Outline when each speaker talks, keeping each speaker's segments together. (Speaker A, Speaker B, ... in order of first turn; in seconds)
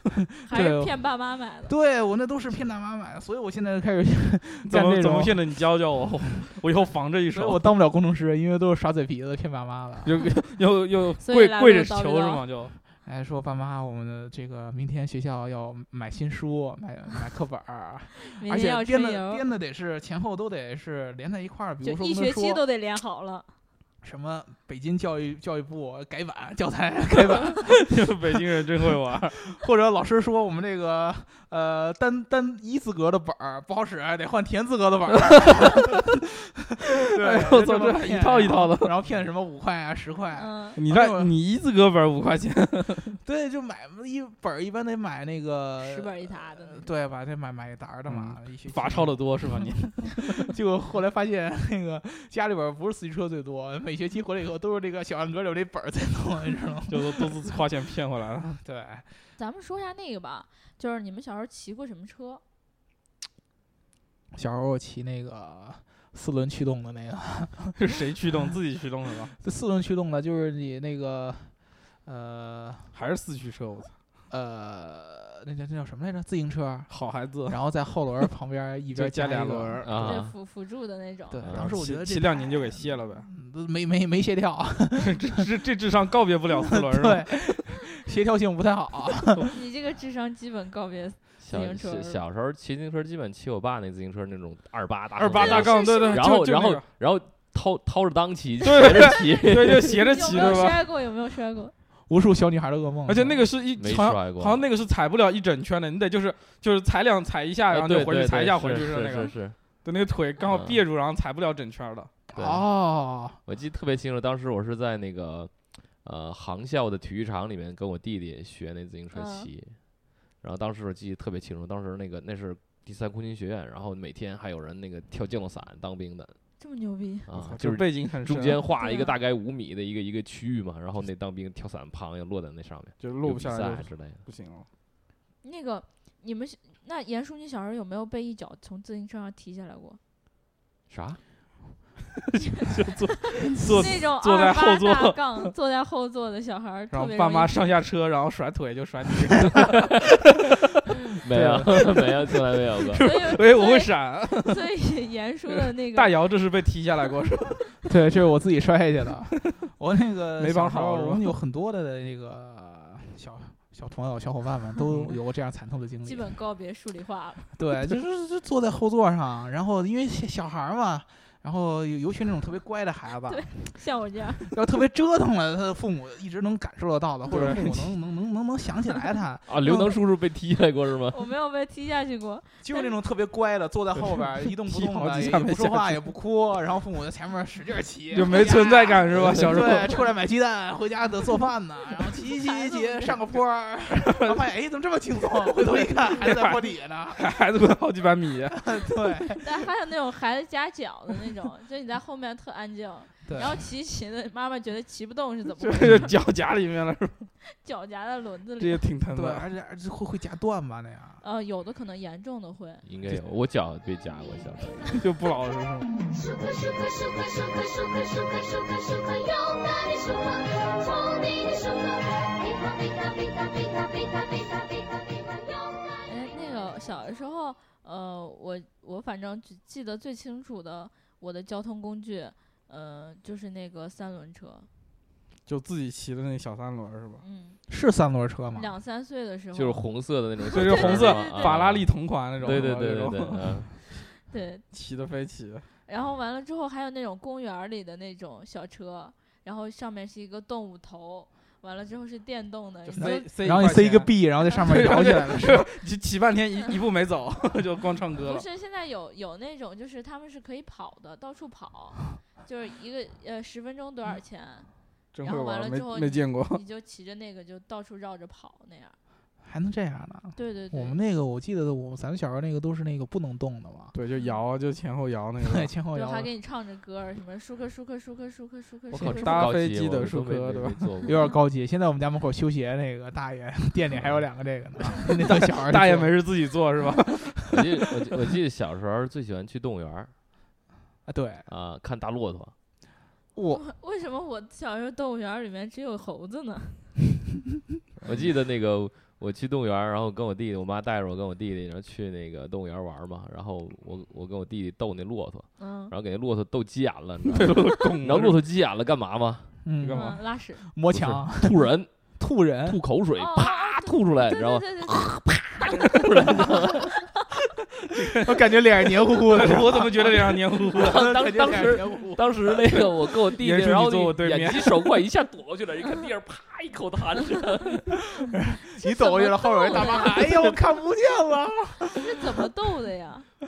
Speaker A: 0.4-1.7, 11.2-12.4, 18.2-19.4, 21.8-23.5, 40.3-40.8, 45.8-46.9, 59.4-62.4, 80.0-81.5, 89.5-92.2, 95.3-96.3, 99.0-101.7, 119.1-119.5, 126.6-127.3, 128.8-129.1, 135.4-140.0, 143.6-147.8, 153.0-156.2, 166.0-167.5, 173.2-174.5, 181.1-182.9, 192.3-193.3, 199.4-206.2, 207.4-208.8, 211.2-212.8, 226.0-234.7, 237.2-237.6, 238.5-241.6, 244.0-244.7, 245.8-253.3, 254.5-254.8, 258.2-269.0, 270.3-271.0, 274.1-274.4, 275.9-279.5, 281.1-281.4, 293.5-296.9, 305.6-305.9, 309.9-310.6, 313.2-317.0, 328.7-330.4, 331.8-333.3
Speaker B: 0.5-5.6, 7.3-10.3, 13.0-22.6, 24.0-28.1, 29.1-41.3, 43.2-57.5, 58.6-59.3, 64.3-67.8, 69.2-73.0, 74.3-79.9, 81.3-85.4, 86.5-89.5, 102.1-103.5, 112.3-113.4, 151.3-151.8, 157.8-166.3, 167.6-180.0, 182.6-197.3, 198.5-199.7, 203.2-203.6, 209.1-211.2, 237.7-238.7, 252.9-255.7, 269.4-273.9, 275.4-276.3, 281.0-286.3, 291.1-291.5, 293.3-293.6, 309.6-312.8, 318.0-322.6, 328.5-332.2
Speaker C: 4.6-7.7, 10.0-12.8, 27.9-29.4, 37.2-38.9, 40.8-43.2, 48.1-50.5, 56.9-58.6, 67.8-69.3, 72.9-73.9, 76.9-77.6, 78.9-80.1, 81.5-83.3, 85.0-87.2, 95.2-96.8, 98.6-100.8, 103.1-112.1, 127.3-128.6, 133.0-134.7, 142.7-145.5, 146.9-149.8, 152.8-154.6, 155.5-157.7, 160.4-161.3, 177.3-177.9, 183.9-186.0, 188.1-190.1, 195.6-198.6, 205.6-207.3, 208.6-209.5, 214.9-216.0, 235.4-237.2, 240.5-243.7, 244.7-245.7, 252.8-254.1, 254.6-258.4, 265.1-266.6, 273.9-275.7, 278.9-280.9, 285.2-287.4, 307.3-308.4, 309.8-310.2, 316.0-316.4, 317.9-318.5, 319.3-321.1, 323.3-324.8
Speaker D: 79.8-80.3, 81.4-81.7, 91.4-100.6, 103.7-104.7, 107.7-109.6, 110.4-110.8, 112.3-112.7, 113.4-119.8, 120.3-126.4, 127.2-134.2, 140.9-141.2, 151.2-153.0, 179.5-181.2, 212.8-215.0, 239.5-243.7, 278.9-281.1, 287.5-290.1, 291.5-292.5, 298.0-309.6, 310.9-311.9, 312.6-316.9, 320.7-328.0
Speaker E: 216.2-226.0